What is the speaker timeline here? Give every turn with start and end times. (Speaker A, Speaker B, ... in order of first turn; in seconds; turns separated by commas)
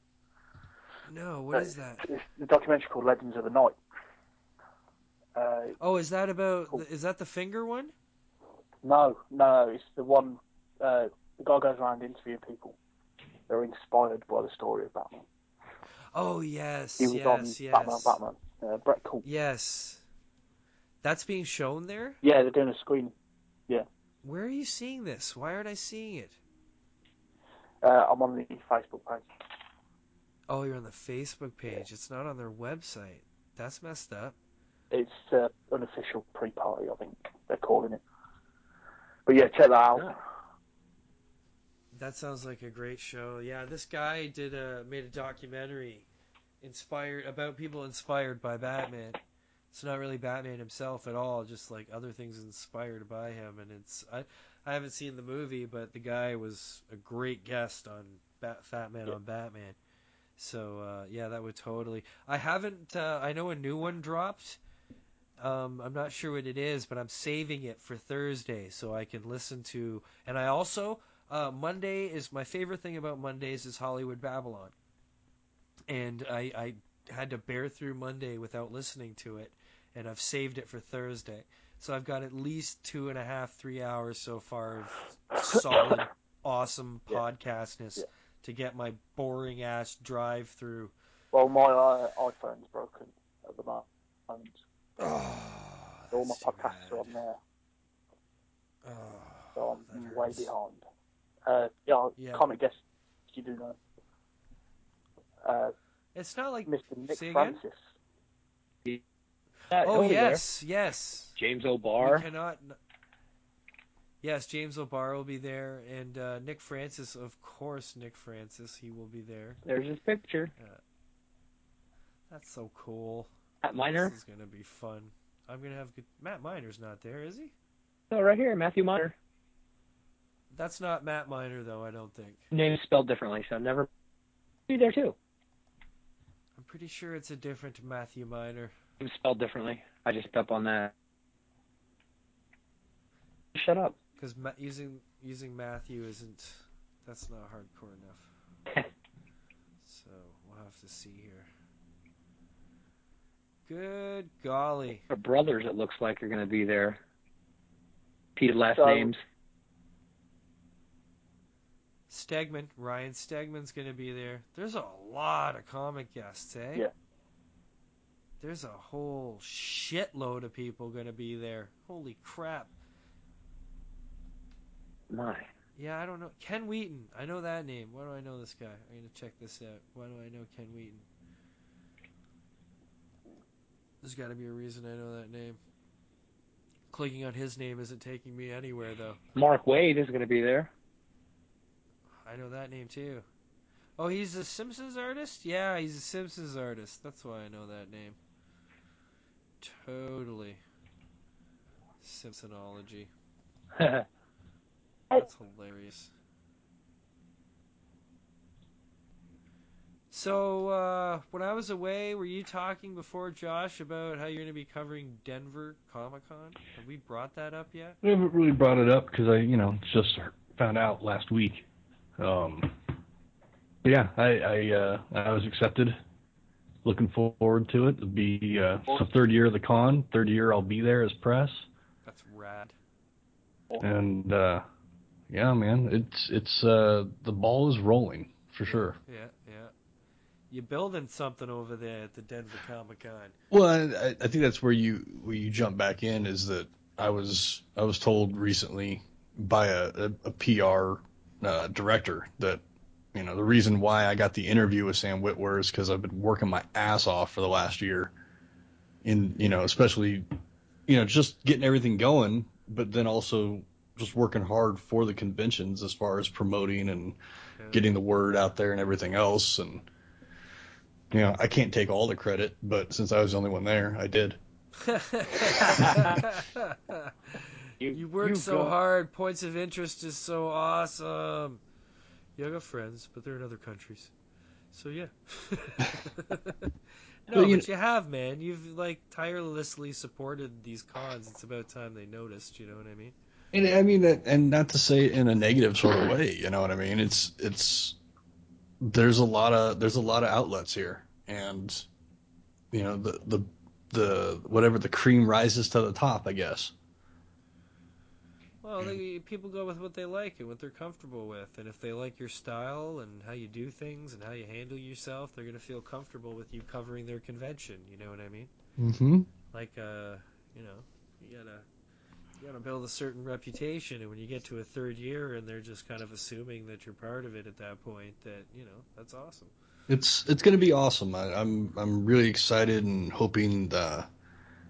Speaker A: 1.1-2.0, Speaker B: 1.5-3.8, Speaker B: 5.3-5.8, Speaker A: 5.8-7.9, Speaker B: 8.8-12.8, Speaker B: 13.5-15.2, Speaker A: 16.1-18.2, Speaker B: 17.0-19.2, Speaker A: 19.2-20.0, Speaker A: 21.0-22.2, Speaker B: 22.2-23.1, Speaker A: 24.2-26.4, Speaker B: 27.8-29.3, Speaker A: 30.5-34.4, Speaker B: 34.9-38.0, Speaker B: 39.3-40.1, Speaker A: 41.9-46.1, Speaker A: 46.6-49.2, Speaker A: 49.7-59.8, Speaker A: 60.4-64.6, Speaker A: 65.4-74.7, Speaker A: 75.9-90.9, Speaker B: 91.3-94.6, Speaker A: 95.0-97.2, Speaker B: 96.1-97.4, Speaker A: 98.8-100.5, Speaker B: 99.5-100.8, Speaker B: 101.5-103.8, Speaker A: 102.2-102.5, Speaker B: 105.4-105.7, Speaker A: 106.1-107.6, Speaker B: 106.7-107.8, Speaker C: 109.7-110.4, Speaker A: 109.8-111.4, Speaker C: 111.4-112.2, Speaker A: 112.0-112.8, Speaker A: 114.2-119.6, Speaker C: 119.6-120.5, Speaker A: 122.3-123.3, Speaker C: 123.6-124.1, Speaker A: 123.9-127.5, Speaker C: 128.1-129.1, Speaker A: 130.5-132.4, Speaker C: 132.5-133.9, Speaker C: 134.7-135.2, Speaker A: 136.6-138.7, Speaker C: 139.0-140.9, Speaker C: 143.6-143.9, Speaker A: 144.2-148.3, Speaker A: 149.8-151.5, Speaker A: 153.7-155.1, Speaker C: 155.1-157.0, Speaker C: 158.4-159.2, Speaker B: 158.7-159.1, Speaker A: 162.1-166.9, Speaker A: 168.4-172.8, Speaker C: 175.1-175.5, Speaker A: 175.8-181.1, Speaker A: 184.0-185.6, Speaker A: 186.9-189.2, Speaker C: 189.4-190.7, Speaker A: 192.2-193.2, Speaker A: 194.0-198.2, Speaker A: 199.6-200.6, Speaker A: 202.0-203.1, Speaker A: 205.1-206.1, Speaker A: 210.1-218.0, Speaker D: 218.0-221.6, Speaker D: 222.2-222.8, Speaker D: 223.8-226.0, Speaker D: 226.8-231.7, Speaker A: 232.1-232.7, Speaker D: 233.8-234.6, Speaker D: 235.3-239.0, Speaker A: 238.7-239.7, Speaker A: 240.5-243.3, Speaker D: 243.5-252.6, Speaker D: 253.1-258.1, Speaker D: 259.0-260.3, Speaker D: 260.9-267.2, Speaker A: 267.6-267.9, Speaker D: 267.7-269.9, Speaker D: 271.1-274.4, Speaker A: 274.8-281.6, Speaker D: 275.8-276.1, Speaker C: 277.8-278.7, Speaker A: 282.4-284.1, Speaker A: 284.7-286.7, Speaker A: 287.3-293.1, Speaker D: 287.3-287.7, Speaker D: 293.5-298.0, Speaker D: 298.8-301.9, Speaker D: 302.7-306.7, Speaker A: 308.6-318.5, Speaker D: 318.8-319.3, Speaker A: 319.5-321.6, Speaker A: 322.4-329.5, Speaker D: 329.9-334.1